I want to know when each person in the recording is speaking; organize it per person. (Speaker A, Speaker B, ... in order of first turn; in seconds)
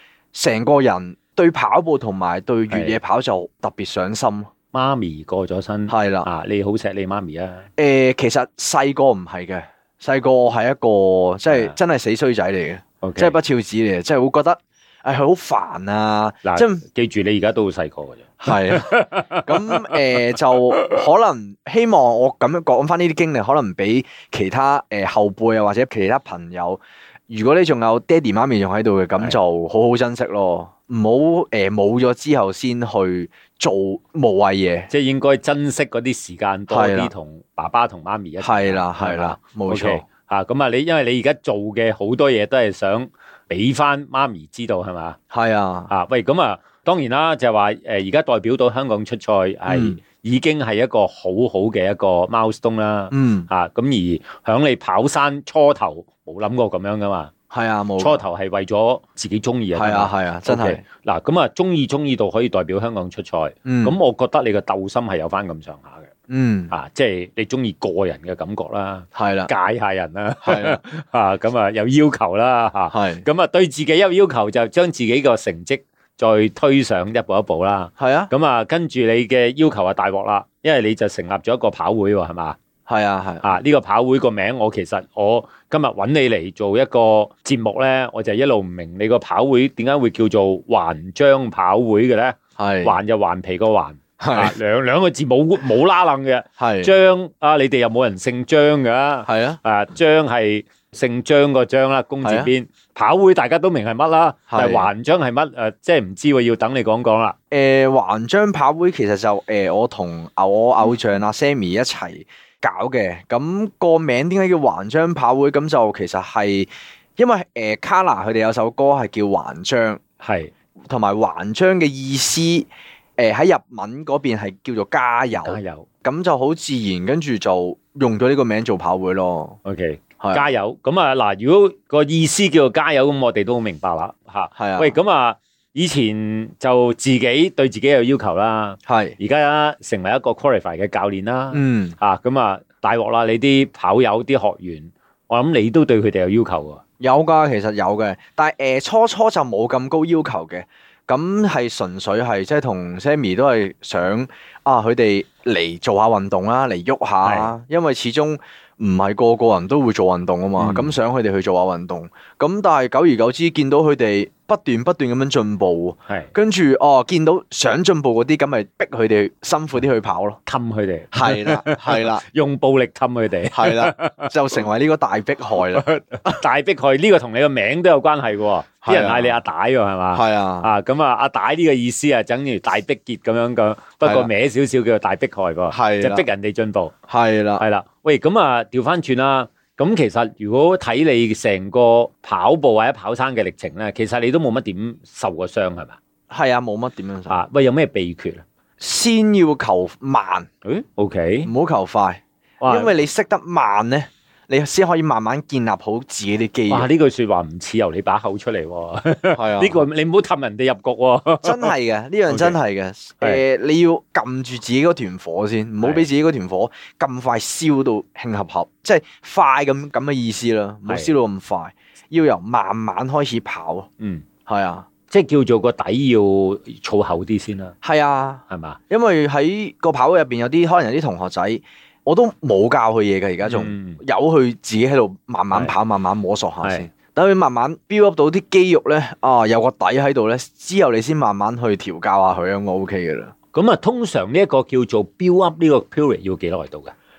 Speaker A: 0.3-4.5, 5.9-6.3, 7.8-16.8, 18.4-34.9, 36.7-37.1, 38.4-40.0, 45.3-45.9, 49.7-50.0, 53.1-53.5, 57.5-58.2, 59.7-60.8, 63.6-63.9, 66.3-66.7, 69.1-69.5, 70.4-70.8, 72.9-73.2, 78.0-78.3, 82.9-83.5, 92.6-93.0, 94.2-94.5, 96.6-96.9, 99.3-99.6, 102.2-102.5, 104.5-104.9, 107.5-120.0, 120.9-129.6, 134.6-135.0, 138.9-139.2, 141.5-141.9, 147.0-170.4, 171.1-172.2, 173.5-176.4, 178.8-179.4, 180.1-180.7, 185.7-186.2, 187.1-187.6, 196.3-197.4, 198.8-200.5, 201.4-206.9, 209.3-209.8, 211.4-223.9, 224.4-224.9, 227.8-243.3
Speaker B: 2.7-3.0, 4.7-7.7, 13.0-13.4, 16.4-20.2, 34.9-45.2, 45.9-57.3, 58.0-66.1, 66.7-82.6, 83.4-107.3, 120.2-120.5, 125.4-125.9, 129.6-146.8, 157.2-157.5, 160.6-160.9, 170.4-174.3, 175.7-186.9, 187.6-196.0, 197.3-198.4, 200.6-201.5, 202.6-203.0, 206.7-211.7, 212.3-212.6, 220.9-221.1, 224.0-224.2, 225.1-227.7, 228.5-228.8, 233.4-234.0, 243.5-246.9